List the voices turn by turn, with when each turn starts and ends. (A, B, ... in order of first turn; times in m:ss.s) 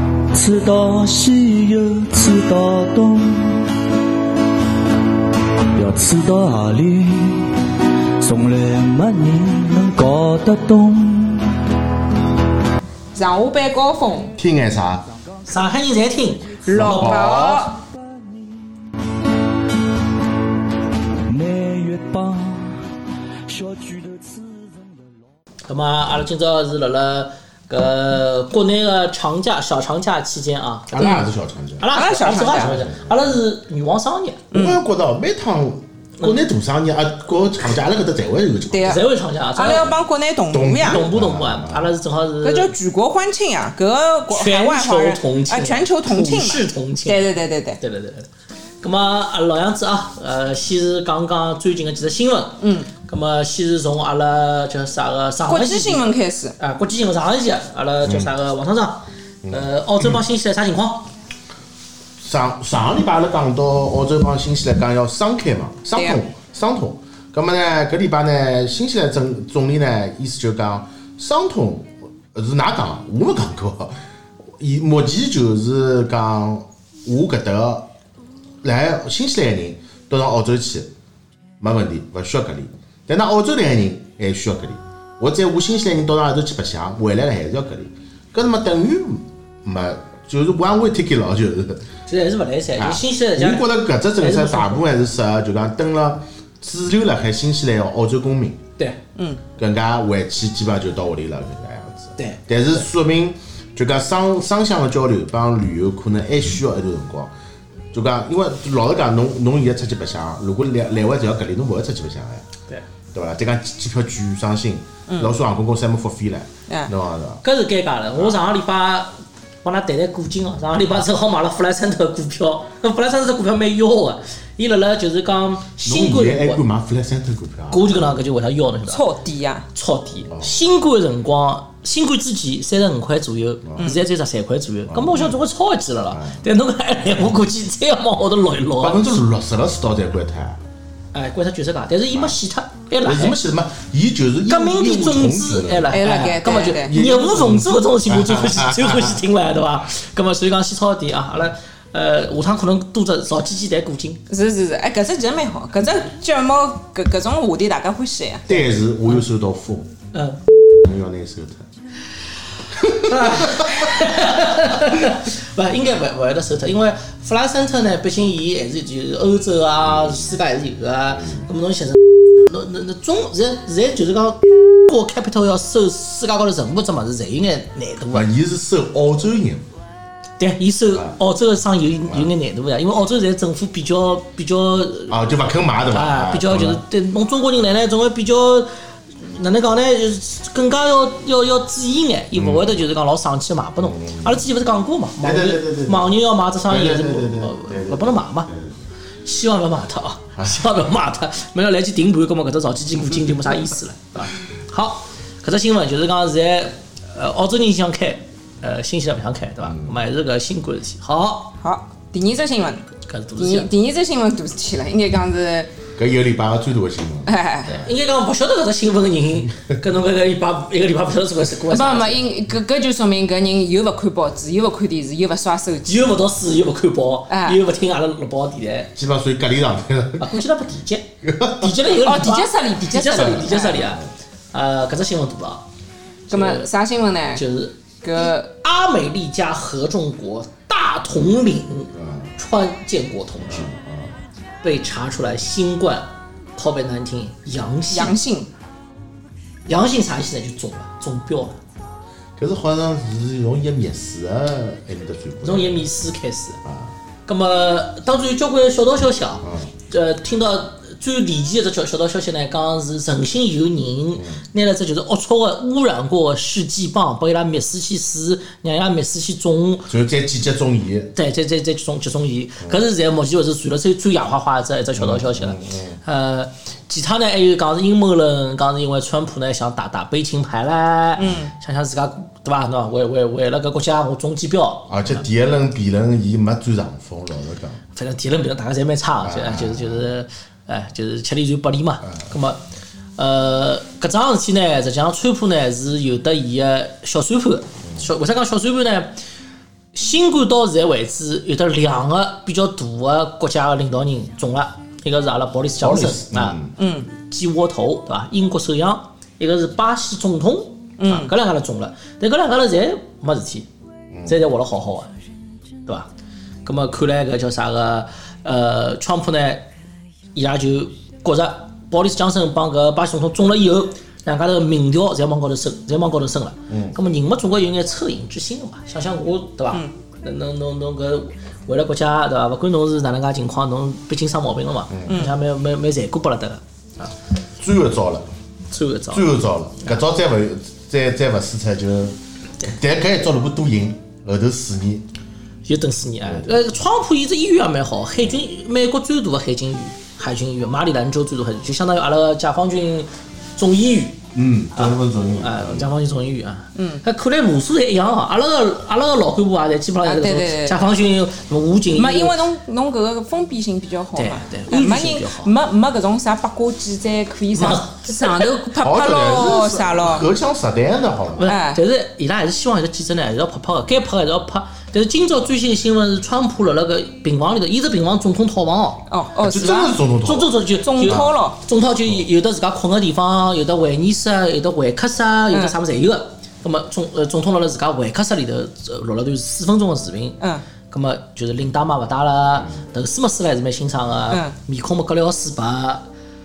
0:00.3-0:03.7 A
0:05.8-0:07.6 A
0:08.2-0:11.5 A
0:13.2-0:14.3 B
0:14.4-0:15.0 C
0:15.5-0:17.6 D
0:16.6-0:17.8 B
0:16.7-0:17.7 C
0:17.9-0:18.6 A
0:21.3-0:22.8 A
0:23.5-0:25.2 A
0:25.7-0:31.1 D
0:30.9-0:31.9 C
0:31.8-0:34.4 D
0:31.9-0:32.8 B
0:32.5-0:33.4 C
0:34.5-0:34.8 B
0:34.5-0:39.0 C
0:38.7-0:41.1 B
0:38.8-0:39.9 D
0:40.5-0:41.9 C
0:40.9-0:42.7 D
0:42.4-0:47.8 B
0:44.3-0:48.3 D
0:48.8-1:01.1 D
0:52.6-0:52.9 B
0:55.5-0:56.6 B
0:58.0-0:58.3 C
0:59.4-1:00.2 C
1:02.2-1:13.9 C
1:14.6-1:17.9 C
1:18.6-1:20.9 C
1:21.6-1:31.9 C
1:32.1-1:34.8 D
1:32.8-1:38.6 C
1:39.2-1:39.4 B
1:39.6-1:47.3 C
1:42.2-1:42.4 D
1:47.9-1:52.5 C
1:53.1-1:57.4 C
1:57.4-2:06.6 D
1:58.2-1:58.4 C
2:05.8-2:08.2 C
2:07.7-2:09.0 D
2:08.9-2:09.7 B
2:09.8-2:19.2 D
2:10.3-2:10.5 C
2:13.6-2:13.9 C
2:14.9-2:15.4 C
2:16.1-2:16.4 C
2:18.8-2:20.6 C
2:21.1-2:23.4 D
2:22.1-2:22.4 C
2:23.0-2:26.2 C
2:24.5-2:34.2 D
2:25.9-2:26.9 B
2:26.8-2:29.2 C
2:34.3-2:38.5 B
2:38.5-2:39.9 C
2:40.1-2:40.4 D
2:40.8-2:41.7 C
2:42.7-2:44.2 C
2:42.9-2:58.3 D
2:49.9-2:50.2 C
2:51.1-2:51.5 C
2:58.1-2:59.6 C
3:00.4-3:05.1 D
3:05.1-3:06.8 C
3:05.9-3:18.5 D
3:12.4-3:12.8 C
3:13.8-3:14.4 C
3:15.2-3:18.8 C
3:19.2-3:31.5 D
3:20.4-3:20.7 C
3:29.6-3:30.0 C
3:31.6-3:32.9 B
3:33.0-3:33.7 D
3:33.4-3:35.7 B
3:36.0-3:37.9 C
3:37.3-3:37.8 B
3:37.7-3:42.2 D
3:41.7-3:45.9 B
3:45.8-3:48.9 D
3:47.3-3:47.6 B
3:49.0-3:50.4 C
3:50.2-3:55.7 D
3:51.2-3:52.0 C
3:52.0-3:53.9 B
3:53.2-3:54.1 C
3:56.3-3:56.7 D
3:56.3-3:57.4 B
3:57.4-3:57.8 D
3:58.0-3:58.5 B
3:58.3-4:03.7 D
4:01.9-4:02.3 C
4:03.4-4:04.2 C
4:04.6-4:08.2 D
4:07.9-4:08.5 B
4:09.7-4:11.6 D
4:12.4-4:15.9 C
4:15.4-4:16.6 D
4:16.6-4:16.9 C
4:17.3-4:29.9 D
4:19.4-4:19.7 C
4:29.9-4:31.1 C
4:31.2-4:45.2 D
4:35.0-4:36.0 C
4:41.2-4:41.5 B
4:41.2-4:41.5 C
4:44.9-4:47.8 C
4:48.0-4:52.6 D
4:49.2-4:50.1 C
4:53.2-4:59.2 D
4:59.9-5:06.6 D
5:05.8-5:06.7 C
5:06.8-5:07.1 B
5:07.1-5:13.7 D
5:11.0-5:11.3 B
5:14.3-5:15.1 D
5:16.6-5:19.7 D
5:20.4-5:37.1 D
5:26.7-5:27.0 C
5:34.9-5:35.2 C
5:37.6-5:38.3 C
5:38.7-5:40.0 D
5:39.1-5:45.1 C
5:45.6-5:54.2 D
5:46.3-5:46.6 C
5:54.3-5:55.9 C
5:54.8-6:02.4 D
5:56.8-5:57.0 B
6:00.0-6:00.8 B
6:01.9-6:10.3 B
6:04.2-6:05.5 D
6:07.5-6:08.5 D
6:08.8-6:11.5 C
6:11.4-6:19.0 D
6:11.4-6:11.8 B
6:19.1-6:20.0 B
6:19.4-6:21.3 C
6:20.2-6:36.0 D
6:20.8-6:21.6 B
6:25.5-6:25.8 B